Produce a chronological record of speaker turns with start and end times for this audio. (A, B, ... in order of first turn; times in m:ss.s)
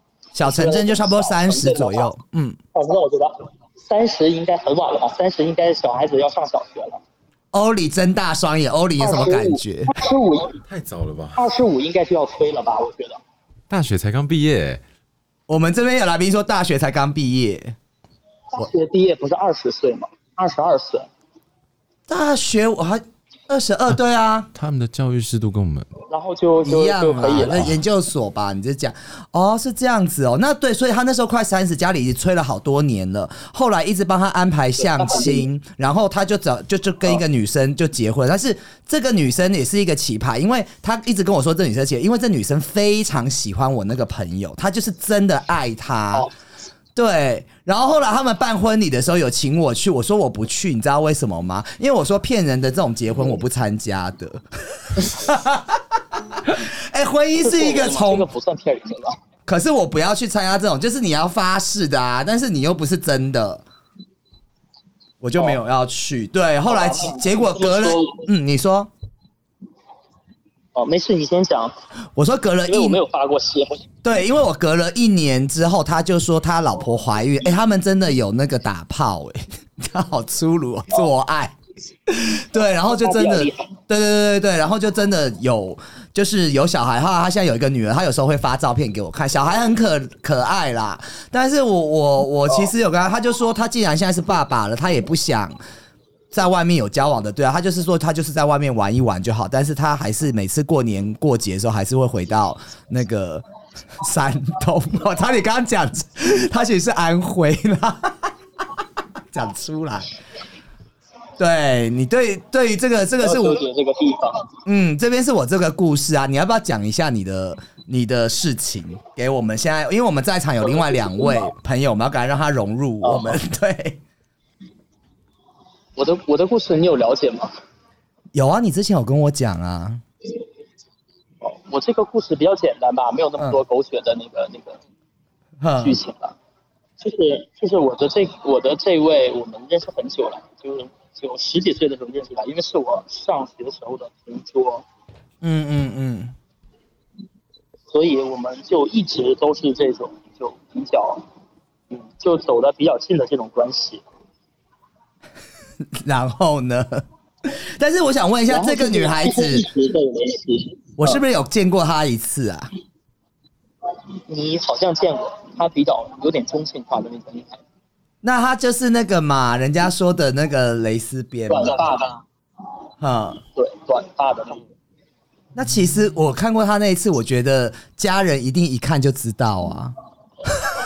0:00.3-0:02.6 A
0:00.4-0:02.1 B
0:02.7-0:07.0 B
0:07.5-0:10.0 A
0:09.0-0:10.6 B
0:10.7-0:11.4 C
0:11.3-0:13.2 B
0:13.7-0:14.8 C
0:15.5-0:17.8 A
0:18.5-0:21.1 B
0:22.1-0:24.5 A
0:24.5-0:25.9 C
0:26.1-0:27.7 B
0:26.6-0:46.3 A
0:34.8-0:35.4 B
0:46.9-0:55.8 A
0:56.4-0:58.3 A
0:57.4-0:59.2 B
0:59.5-1:03.6 A
1:05.2-1:08.9 A
1:06.6-1:08.2 B
1:10.7-1:11.7 B
1:12.2-1:13.0 A
1:12.7-1:13.8 B
1:14.0-1:21.5 A
1:22.1-1:35.6 A
1:22.9-1:23.7 B
1:36.3-1:43.4 A
1:44.0-1:48.3 A
1:49.3-1:50.1 A
1:51.4-1:53.6 A
1:53.2-1:54.5 B
1:54.6-2:04.0 A
2:00.6-2:01.5 B
2:03.0-2:03.4 B
2:06.0-2:07.5 B
2:08.3-2:10.0 A
2:11.4-2:14.8 B
2:15.6-2:16.0 A
2:15.8-2:16.3 B
2:17.0-2:24.8 B
2:25.4-2:26.3 A
2:27.9-2:31.2 B
2:31.9-2:34.0 B
2:36.0-2:39.6 A
2:38.5-2:41.2 B
2:41.0-2:42.7 A
2:44.3-2:47.6 B
2:48.2-2:51.8 A
2:51.5-2:52.2 B
2:53.0-2:53.4 A
2:53.5-2:54.6 B
2:55.5-2:59.9 A